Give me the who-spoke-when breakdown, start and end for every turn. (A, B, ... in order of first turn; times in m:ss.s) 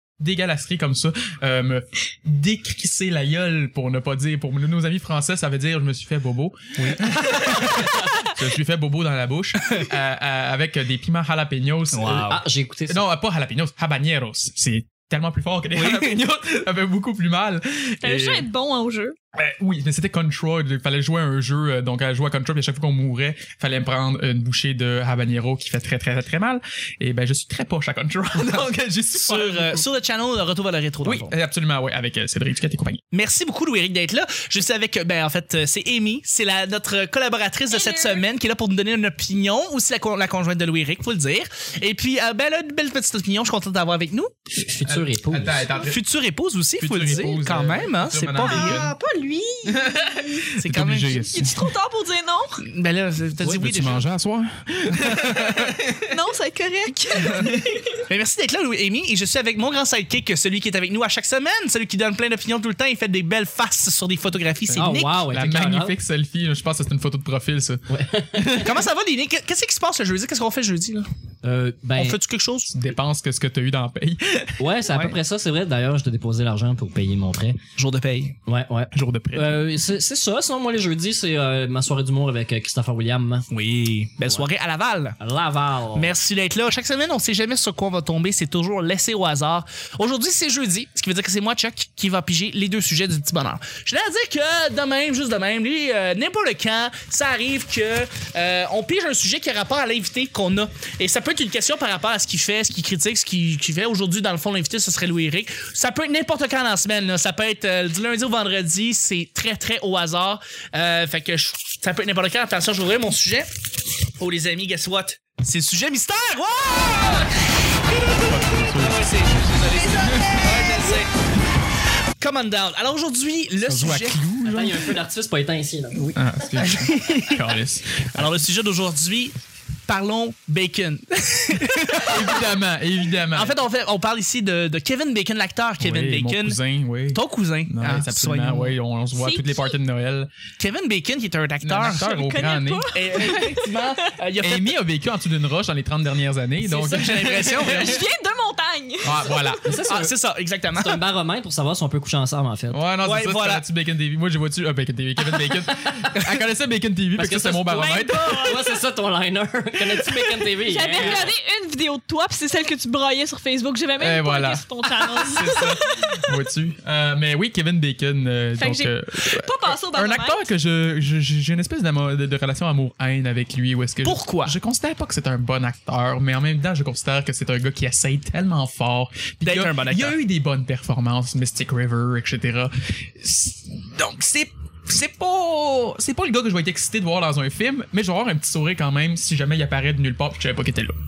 0:00.2-0:12.3 A
0:06.8-0:07.8 B
0:11.9-0:12.4 B
0:12.2-0:13.0 C
0:12.9-0:18.5 A
0:15.8-0:16.2 B
0:18.0-0:19.2 D
0:19.4-0:29.9 A
0:29.2-0:31.3 B
0:31.0-0:33.0 A
0:33.1-0:44.3 B
0:37.7-0:38.2 D
0:44.6-0:45.7 C
0:44.8-0:46.0 A
0:45.8-0:48.9 B
0:46.8-0:48.9 A
0:48.4-0:50.5 D
0:49.7-0:51.7 A
0:50.6-0:51.2 B
0:51.1-0:52.6 D
0:52.6-0:54.1 B
0:53.4-0:56.2 A
0:54.9-0:55.7 B
0:56.1-0:58.0 D
0:57.2-0:57.5 B
0:57.3-0:57.6 A
0:58.1-1:05.2 B
1:04.7-1:08.8 A
1:04.8-1:06.0 C
1:07.9-1:08.7 C
1:08.6-1:11.1 B
1:11.4-1:12.2 C
1:12.0-1:12.7 B
1:12.7-1:14.6 A
1:14.6-1:17.6 C
1:14.9-1:15.2 B
1:17.8-1:18.4 B
1:18.5-1:23.5 C
1:18.9-1:19.7 A
1:23.5-1:25.2 B
1:25.2-1:26.2 C
1:26.0-2:01.1 B
1:58.1-2:01.0 A
2:02.2-2:04.2 B
2:03.7-2:05.0 A
2:04.4-2:06.2 C
2:06.1-2:07.5 B
2:06.2-2:08.4 A
2:08.1-2:12.5 B
2:11.9-2:13.6 A
2:13.3-2:16.6 B
2:15.8-2:20.3 A
2:17.1-2:18.8 B
2:19.1-2:19.8 D
2:20.6-2:22.0 B
2:21.6-2:22.9 A
2:21.9-2:23.9 D
2:22.9-2:24.7 B
2:24.4-2:28.0 A
2:26.6-2:28.0 B
2:27.5-2:29.6 D
2:29.0-2:29.7 A
2:29.6-2:30.1 C
2:29.7-2:31.0 B
2:30.8-2:32.8 C
2:32.7-2:38.6 A
2:33.0-2:33.6 B
2:37.2-2:41.3 C
2:37.7-2:38.7 D
2:40.6-2:46.3 D
2:41.0-2:41.3 A
2:44.0-3:11.0 A
2:48.6-2:50.4 D
2:54.0-2:54.6 B
2:59.4-3:00.2 B